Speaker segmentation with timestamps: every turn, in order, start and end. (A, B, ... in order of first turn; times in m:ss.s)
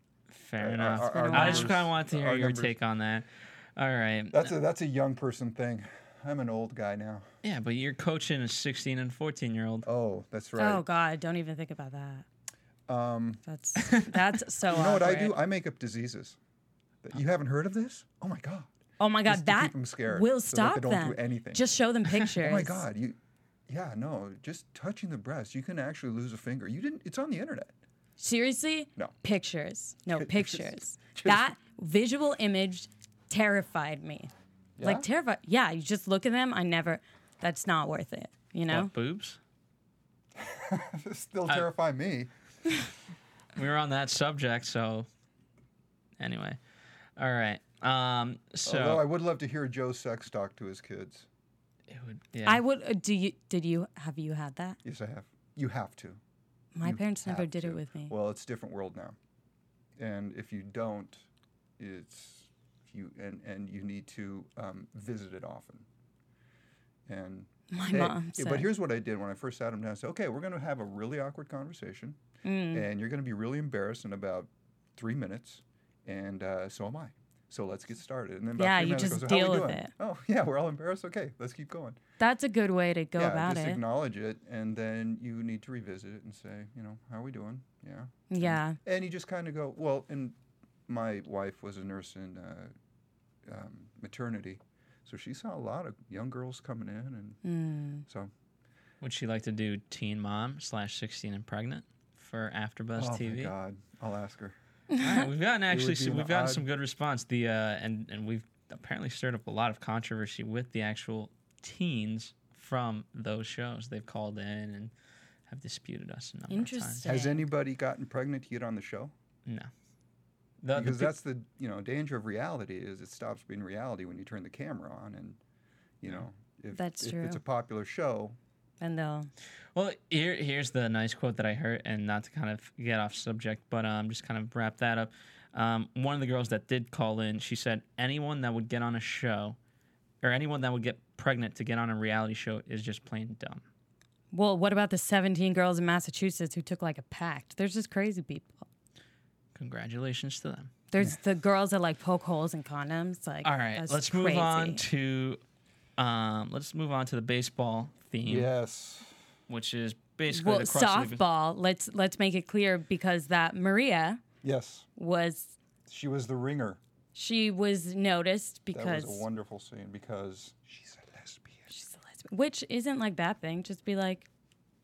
0:00.3-0:04.5 A
0:00.6-0:02.7 B
0:01.1-0:01.7 C
0:04.3-0:07.2 B
0:07.4-0:09.8 A
0:09.8-0:10.8 B
0:10.6-0:12.2 C
0:12.9-0:13.4 B
0:13.4-0:15.4 C
0:14.7-0:16.4 B
0:17.0-0:18.7 B
0:19.0-0:22.8 C
0:19.2-0:21.6 B
0:22.3-0:23.2 B
0:23.7-0:27.7 B
0:28.2-0:34.3 C
0:30.1-0:30.6 B
0:31.2-0:31.4 B
0:34.8-0:35.1 B
0:34.8-0:38.9 C
0:38.7-0:39.4 A
0:40.4-0:42.3 B
0:43.6-0:45.1 A
0:46.2-0:46.6 A
0:47.2-0:49.1 A
0:48.6-0:51.2 B
0:51.9-0:52.6 A
0:52.4-0:54.8 C
0:54.8-0:56.2 B
0:56.7-0:58.1 C
0:56.8-0:59.2 B
1:00.0-1:01.2 B
1:01.8-1:05.8 B
1:07.1-1:12.2 B
1:07.7-1:08.7 C
1:12.4-1:12.8 C
1:12.7-1:22.0 B
1:18.6-1:19.9 C
1:22.2-1:23.8 C
1:23.2-1:30.4 B
1:28.3-1:28.8 C
1:30.9-1:32.7 B
1:33.4-1:37.4 B
1:37.4-1:38.0 C
1:39.0-1:43.5 A
1:43.0-1:44.5 B
1:44.9-1:45.2 C
1:45.0-1:54.9 A
1:45.7-1:46.6 B
1:55.5-1:57.1 A
1:56.5-1:57.4 C
1:57.0-1:59.1 B
2:00.6-2:01.2 A
2:00.7-2:05.4 B
2:06.0-2:08.4 B
2:06.7-2:07.4 C
2:08.8-2:09.3 C
2:09.7-2:19.6 A
2:20.2-2:23.6 A
2:24.3-2:28.6 C
2:29.5-2:30.7 A
2:30.9-2:34.8 C
2:33.4-2:35.4 A
2:36.0-2:38.5 A
2:38.2-2:39.1 B
2:39.5-2:41.2 A
2:40.3-2:44.2 C
2:44.4-2:44.9 B
2:45.0-2:45.5 C
2:45.9-2:46.8 B
2:47.1-2:49.2 C
2:48.7-2:51.7 B
2:51.7-2:54.3 C